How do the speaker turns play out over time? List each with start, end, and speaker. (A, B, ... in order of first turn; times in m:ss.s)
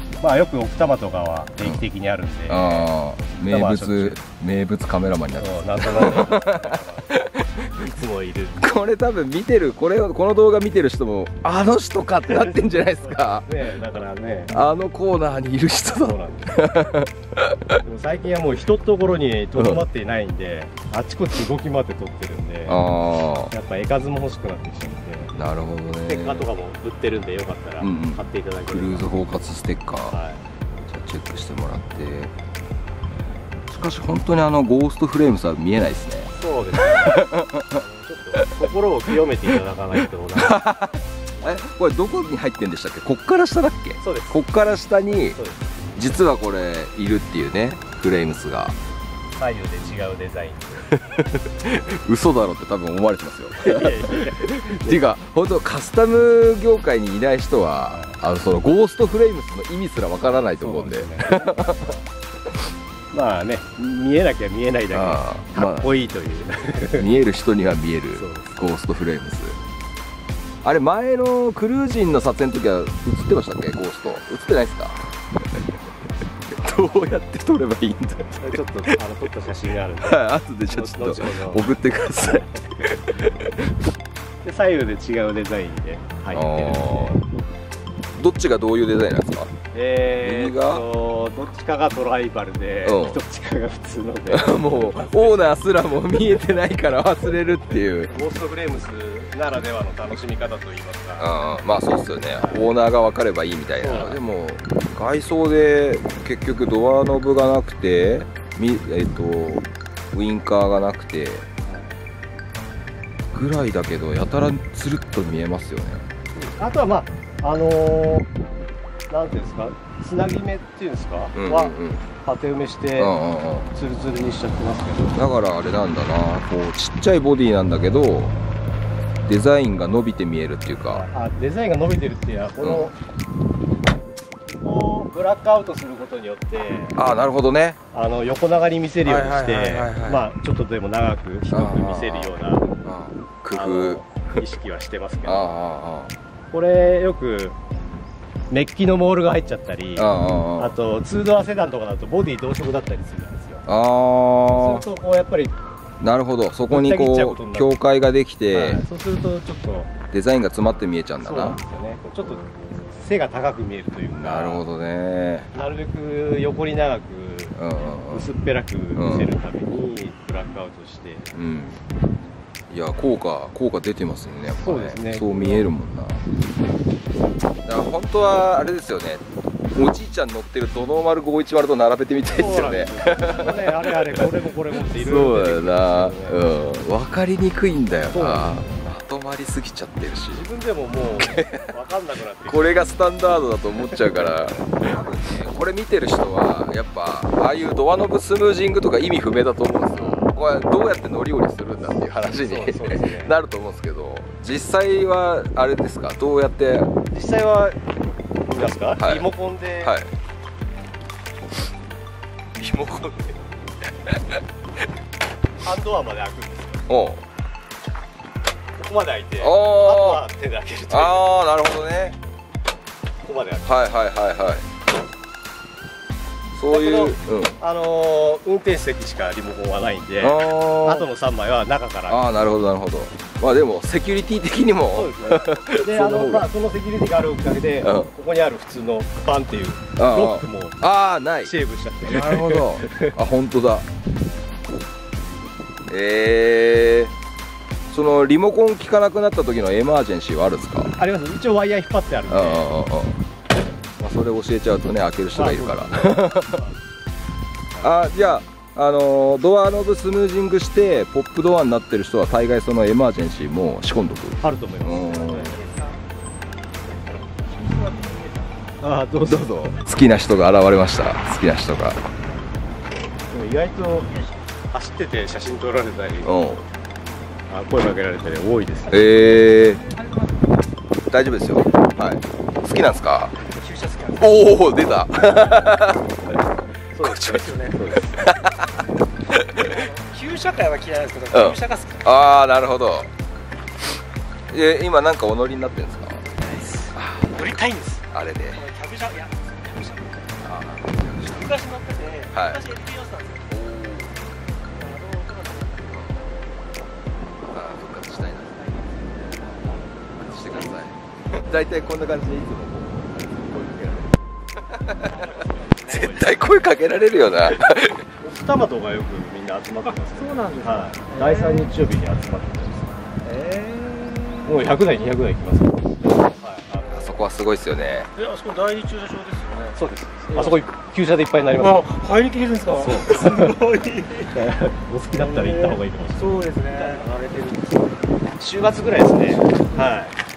0:00.2-0:02.9 A
0:02.5-0:07.6 B
0:03.4-0:04.2 A
0:05.4-0:07.2 A
0:07.8-0:08.7 A
0:08.6-0:13.5 B
0:12.3-0:14.6 A
0:14.5-0:17.8 B
0:16.0-0:16.6 A
0:17.8-0:22.8 A
0:19.6-0:19.8 B
0:22.7-0:23.5 B
0:23.5-0:25.3 A
0:25.3-0:26.5 B
0:26.0-0:29.1 A
0:27.8-0:30.2 B
0:30.1-0:30.4 A
0:30.8-0:32.3 B
0:33.7-0:36.3 B
0:36.3-0:40.6 A
0:36.8-0:37.8 B
0:40.3-0:45.4 B
0:44.0-0:44.4 A
0:45.3-0:45.7 A
0:46.0-0:48.8 B
0:49.3-0:50.9 A
0:51.1-1:02.0 B
0:53.5-0:55.0 A
0:57.9-0:58.2 A
1:00.6-1:02.0 A
1:03.1-1:07.1 A
1:04.9-1:05.9 B
1:06.8-1:09.6 B
1:08.1-1:08.6 A
1:10.6-1:15.6 B
1:16.5-1:18.9 B
1:18.4-1:21.7 A
1:20.0-1:23.5 B
1:24.4-1:27.2 A
1:26.3-1:27.2 B
1:28.1-1:29.5 B
1:29.7-1:35.6 A
1:30.2-1:30.8 B
1:32.8-1:33.2 B
1:34.3-1:38.1 B
1:37.7-1:41.3 A
1:41.2-1:51.4 B
1:43.8-1:44.2 A
1:53.3-1:56.1 B
1:56.4-1:58.3 A
1:59.1-2:03.1 A
2:01.4-2:02.1 B
2:03.0-2:03.7 B
2:03.7-2:05.2 A
2:05.1-2:08.4 B
2:09.2-2:11.0 B
2:10.9-2:13.0 A
2:12.6-2:12.9 B
2:14.6-2:17.0 A
2:16.9-2:17.8 B
2:17.9-2:22.7 A
2:19.0-2:20.3 B
2:21.5-2:24.4 B
2:23.5-2:25.5 A
2:25.2-2:26.1 B
2:26.5-2:27.6 A
2:28.5-2:33.6 A
2:30.0-2:30.7 B
2:33.6-2:34.8 B
2:34.5-2:35.5 A
2:36.0-2:38.8 B
2:36.7-2:37.7 A
2:38.5-2:39.9 A
2:40.1-2:41.6 B
2:41.2-2:44.6 A
2:44.1-2:45.5 B
2:45.5-2:47.6 A
2:47.5-2:48.3 B
2:48.1-2:51.3 A
2:48.9-2:49.3 B
2:51.3-2:51.8 B
2:52.7-2:56.2 B
2:54.6-2:55.6 A
2:57.6-3:10.4 B
3:02.3-3:06.4 A
3:08.1-3:08.8 A
3:10.3-3:12.9 A
3:11.1-3:11.7 B
3:12.5-3:26.9 B
3:13.9-3:15.0 A
3:19.9-3:20.4 A
3:22.3-3:23.3 A
3:27.1-3:27.8 A
3:28.5-3:30.0 A
3:29.0-3:29.3 B
3:29.8-3:30.1 B
3:32.6-3:33.3 A
3:35.6-3:36.8 A
3:36.9-3:37.2 B
3:38.8-3:41.3 A
3:39.4-3:40.2 B
3:40.9-3:42.2 B
3:43.2-3:43.7 A
3:43.6-3:44.6 B
3:46.5-3:47.6 B
3:46.7-3:52.2 A
3:50.2-3:51.1 B
3:52.1-3:56.4 B
3:54.9-4:00.8 A
3:57.8-3:58.1 B
4:00.0-4:03.9 B
4:01.4-4:03.2 A
4:05.9-4:07.1 B
4:07.9-4:10.9 B
4:11.0-4:12.7 A
4:12.3-4:13.2 B
4:14.0-4:16.6 B
4:15.3-4:16.8 A
4:17.8-4:25.5 B
4:24.4-4:25.7 A
4:25.2-4:26.0 C
4:27.1-4:28.6 C
4:28.8-4:29.7 A
4:29.2-4:32.0 B
4:33.3-4:34.1 A
4:34.7-4:36.4 A
4:36.2-4:36.6 B
4:37.5-4:39.3 A
4:38.9-4:39.8 B
4:39.7-4:40.4 C
4:41.1-4:43.3 B
4:43.4-4:44.5 C
4:44.2-4:46.2 B
4:47.0-4:48.2 A
4:47.0-4:49.8 B
4:47.3-4:47.8 C
4:49.3-4:52.1 C
4:51.3-4:53.1 B
4:54.5-4:56.2 B
4:56.4-4:58.0 C
4:56.9-4:57.4 B
4:58.1-4:58.6 B
4:58.5-5:00.4 C
5:00.4-5:01.6 B
5:01.2-5:03.6 C
5:02.3-5:02.7 B
5:03.5-5:04.1 B
5:04.7-5:06.1 C
5:05.9-5:06.2 B
5:07.4-5:08.7 B
5:08.3-5:10.8 C
5:10.2-5:13.2 B
5:13.4-5:14.0 A
5:14.7-5:15.3 B
5:14.9-5:16.5 C
5:15.8-5:18.0 B
5:18.2-5:23.0 A
5:19.9-5:21.7 C
5:23.2-5:24.8 C
5:24.4-5:27.2 A
5:26.9-5:28.1 B
5:28.2-5:29.8 C
5:29.7-5:31.9 A
5:30.3-5:30.6 C
5:31.6-5:34.5 C
5:32.8-5:33.7 A
5:34.3-5:36.3 A
5:35.1-5:38.2 C
5:38.3-5:40.1 A
5:39.2-5:40.0 C